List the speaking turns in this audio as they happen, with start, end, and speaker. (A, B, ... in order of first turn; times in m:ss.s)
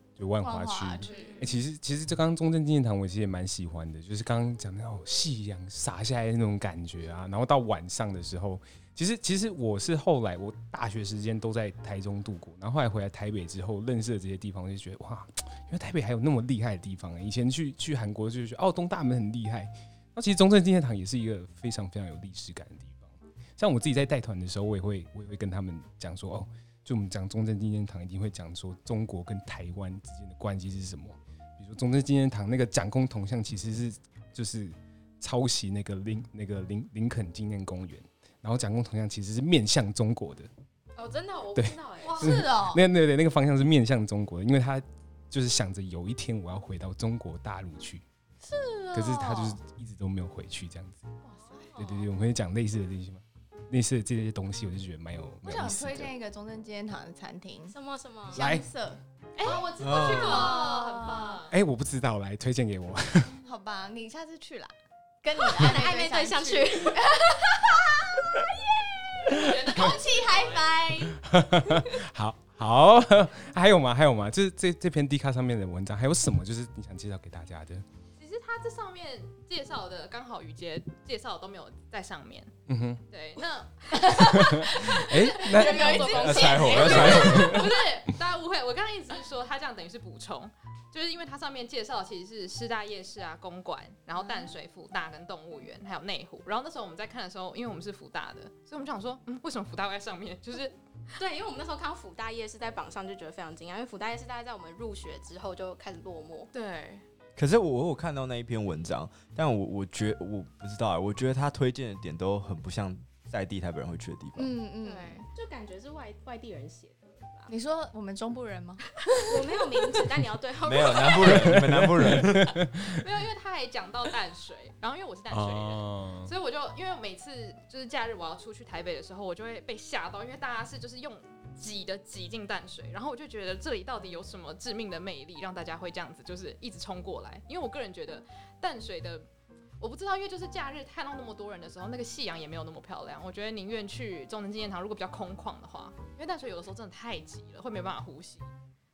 0:00.2-0:40.5 A
0:00.4-0:01.4 B
0:01.0-0:01.4 C
0:01.1-0:01.4 D
0:41.0-0:42.4 C
0:41.5-0:48.0 A
0:42.0-0:42.8 B
0:48.5-0:49.6 B
0:48.9-0:51.0 A
0:51.2-0:51.7 B
0:51.8-0:56.1 A
0:55.4-0:57.7 B
0:57.7-0:58.4 C
0:58.3-1:01.4 B
0:58.3-0:58.6 A
0:59.4-1:01.5 D
0:59.4-1:01.0 C
0:59.8-1:00.4 E
1:01.5-1:03.4 A
1:03.4-1:11.2 B
1:05.4-1:07.2 C
1:09.3-1:10.8 D
1:11.2-1:17.8 A
1:18.2-1:22.5 D
1:22.7-1:23.0 A
1:23.1-1:24.5 D
1:23.9-1:27.9 B
1:24.3-1:26.1 A
1:25.3-1:40.7 D
1:25.6-1:27.2 C
1:26.1-1:27.6 E
1:27.0-1:27.6 A
1:41.2-1:46.5 C
1:46.5-1:47.0 D
1:47.4-1:54.5 E
1:54.4-1:55.3 B
1:54.8-1:55.2 D
1:55.3-1:57.5 C
1:57.5-2:00.0 B
1:59.1-2:01.6 C
2:00.6-2:02.6 E
2:01.2-2:03.0 A
2:02.8-2:19.3 D
2:05.3-2:06.3 A
2:19.8-2:28.5 D